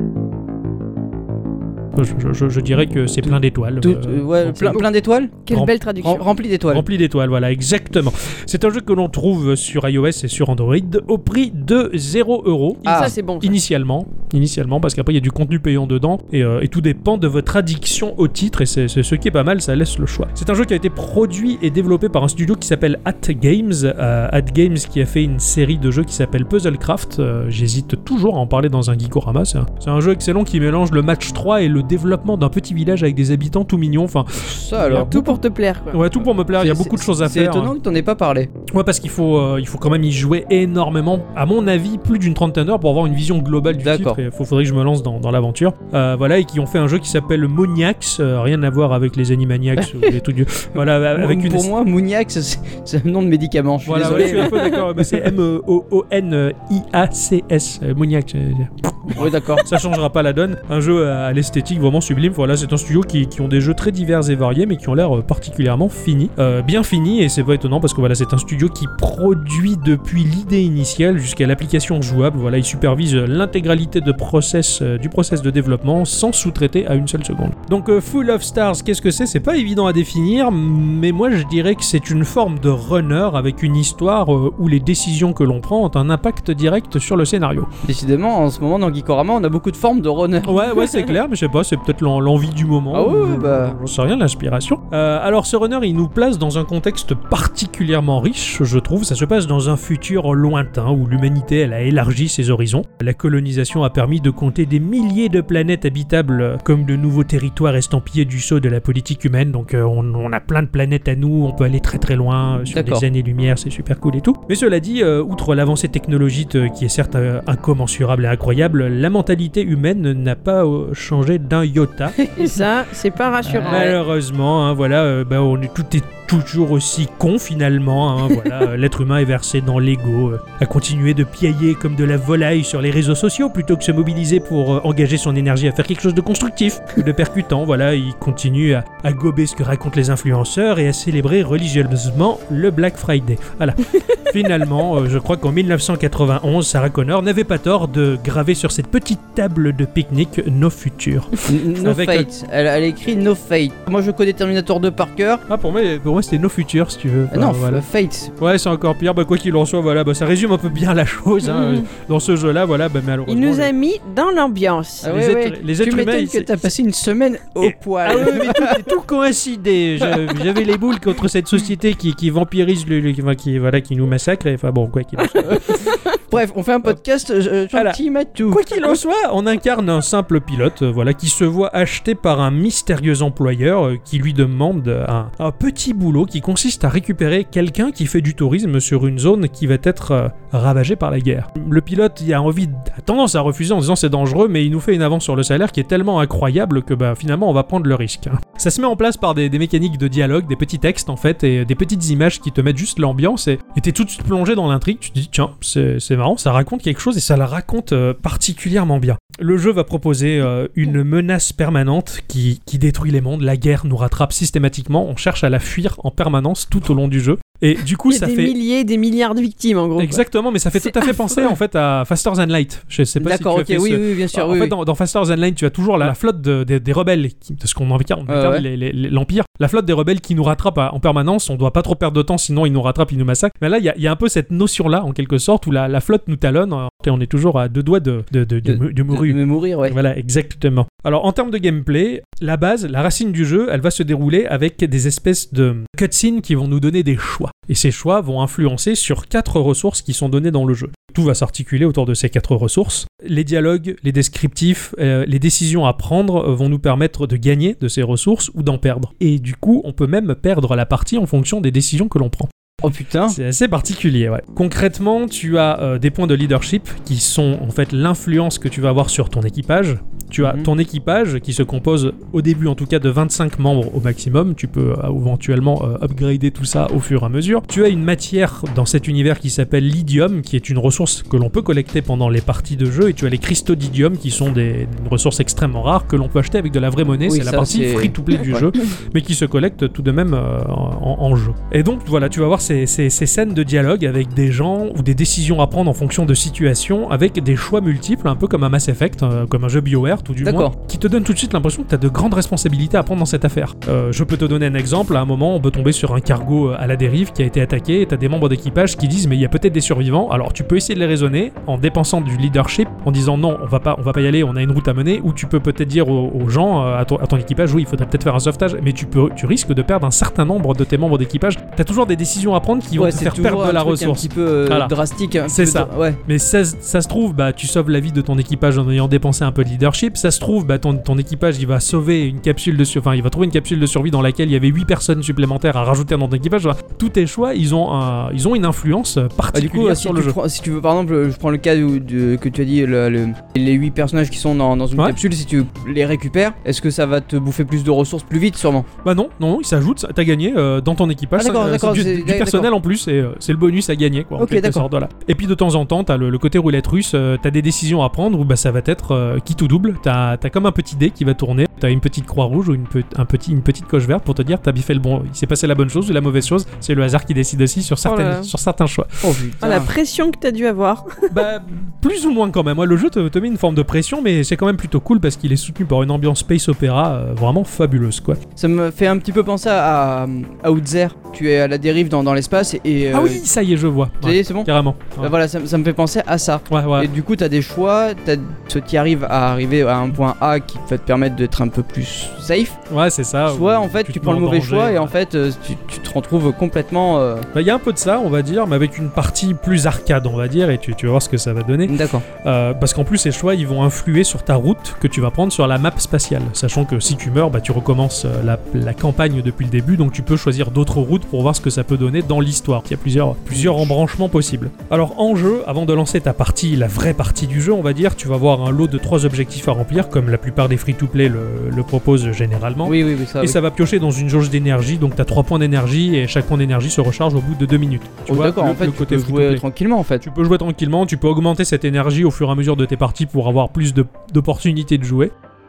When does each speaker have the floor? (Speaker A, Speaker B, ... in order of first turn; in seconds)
Speaker A: 1.9-4.9, 5.5-5.7, 6.7-35.4, 35.9-37.7, 38.7-51.7, 53.9-87.7, 90.4-122.2, 123.5-152.3, 155.5-157.8, 158.4-163.7, 165.0-166.5, 167.6-175.9, 177.7-218.5, 220.0-262.5, 263.3-324.9, 325.4-340.4, 349.0-369.1, 371.3-378.4, 383.1-385.3, 386.7-387.1, 392.9-395.1, 397.5-429.6, 430.2-435.3
Speaker B: 3.2-5.5, 6.0-6.8, 12.8-13.1, 34.4-35.1, 36.5-38.5, 43.7-44.2, 49.8-50.1, 50.8-55.2, 59.1-59.6, 87.8-91.1, 92.9-93.8, 112.7-113.0, 122.2-122.6, 123.5-123.9, 151.4-155.4, 157.3-158.3, 165.0-168.8, 176.3-178.9, 223.2-224.7, 228.3-228.6, 238.6-240.0, 262.8-263.4, 270.4-270.7, 287.3-288.7, 300.4-300.7, 322.9-326.2, 339.5-348.9, 351.4-352.7, 354.4-354.9, 369.2-369.9, 378.6-383.4, 384.2-392.8, 393.5-397.5, 401.9-402.2, 413.5-413.9, 422.8-423.6, 428.3-430.2
Speaker C: 5.5-6.3, 12.8-13.6, 34.9-36.0, 122.4-124.0, 161.5-161.8, 163.3-165.2, 218.1-220.2, 220.8-221.5, 368.0-368.5, 369.6-371.3